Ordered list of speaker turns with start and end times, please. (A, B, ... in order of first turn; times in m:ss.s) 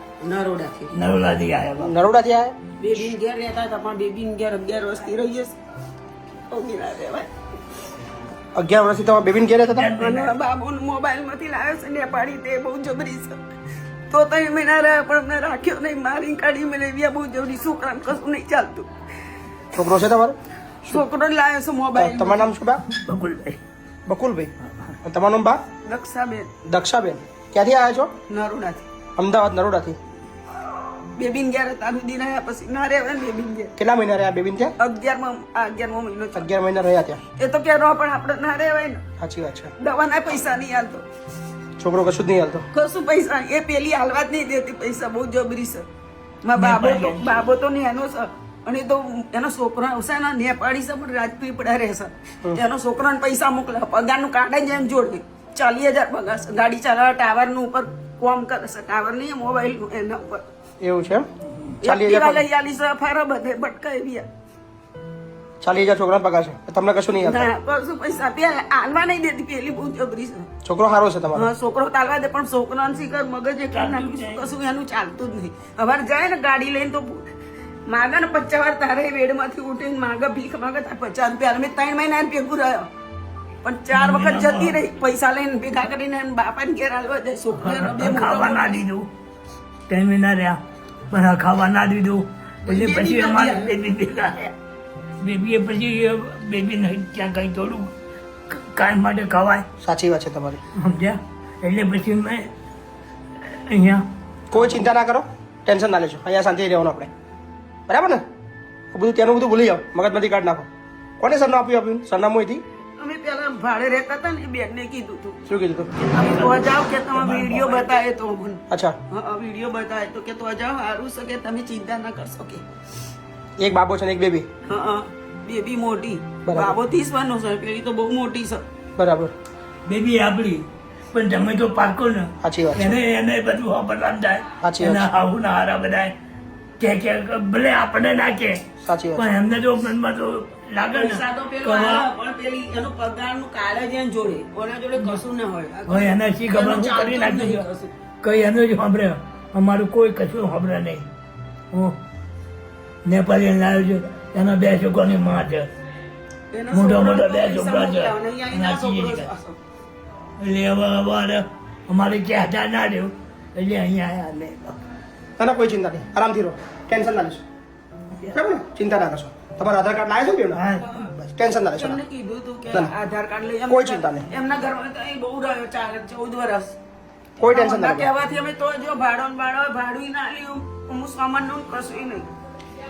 0:00.2-0:01.0 A
0:00.9-0:01.9 B
0:01.8-0:02.5 C
0:02.8-0:05.5 A
0:06.5-0:07.3 A
0:08.5-0:09.9 C
0:09.7-0:10.3 B
0:10.0-0:13.4 A
0:14.1-0:18.9 A
0:19.7-0:20.4 C
0:20.8-0:22.5 A
0:21.9-0:22.8 C
0:22.9-0:23.6 B
0:24.1-0:24.5 C
0:25.0-0:25.6 C
0:25.8-0:26.5 A
0:26.6-0:28.1 C
0:28.3-0:28.9 A
0:29.2-0:30.0 C
0:31.1-0:33.7 A
0:33.8-0:34.7 C
0:34.8-0:36.5 A
0:36.3-0:37.2 C
0:37.4-0:39.0 A
0:39.2-0:39.7 C
0:39.8-0:41.0 A
0:41.8-0:42.6 C
0:42.7-0:45.8 A
0:46.4-1:00.4 A
0:46.6-0:47.5 B
1:00.8-1:01.3 C
1:01.8-1:04.3 A
1:01.8-1:02.4 C
1:05.6-1:07.5 C
1:07.2-1:10.5 A
1:10.6-1:11.5 C
1:11.3-1:17.3 A
1:13.7-1:14.5 B
1:17.9-1:22.9 A
1:23.6-1:28.8 A
1:23.9-1:24.8 B
1:27.6-1:29.1 B
1:29.9-1:30.6 B
1:31.1-1:34.5 B
1:32.6-1:33.7 A
1:35.2-1:37.9 B
1:38.5-1:39.6 B
1:39.8-1:40.6 C
1:40.8-1:42.5 B
1:43.4-1:44.0 B
1:44.5-1:47.1 C
1:47.9-1:48.2 C
1:48.9-1:50.7 C
1:51.2-1:52.6 C
1:53.0-2:02.6 A
1:55.5-1:55.9 C
1:56.0-1:58.0 B
1:58.7-1:59.0 C
2:03.6-2:04.4 C
2:04.6-2:08.6 A
2:06.4-2:06.7 C
2:09.0-2:09.3 C
2:09.8-2:16.1 B
2:12.4-2:13.0 C
2:14.6-2:15.1 C
2:16.8-2:18.6 B
2:18.8-2:19.3 C
2:19.2-2:22.1 B
2:20.8-2:27.9 A
2:25.9-2:27.6 B
2:28.2-2:31.0 B
2:33.0-2:35.7 B
2:36.5-2:39.6 A
2:36.7-2:39.3 B
2:40.4-2:44.8 B
2:45.4-2:47.4 C
2:48.3-2:52.0 C
2:50.5-2:50.9 B
2:51.7-2:56.8 A
2:53.7-2:54.3 C
2:57.4-2:58.1 C
2:57.4-3:02.2 A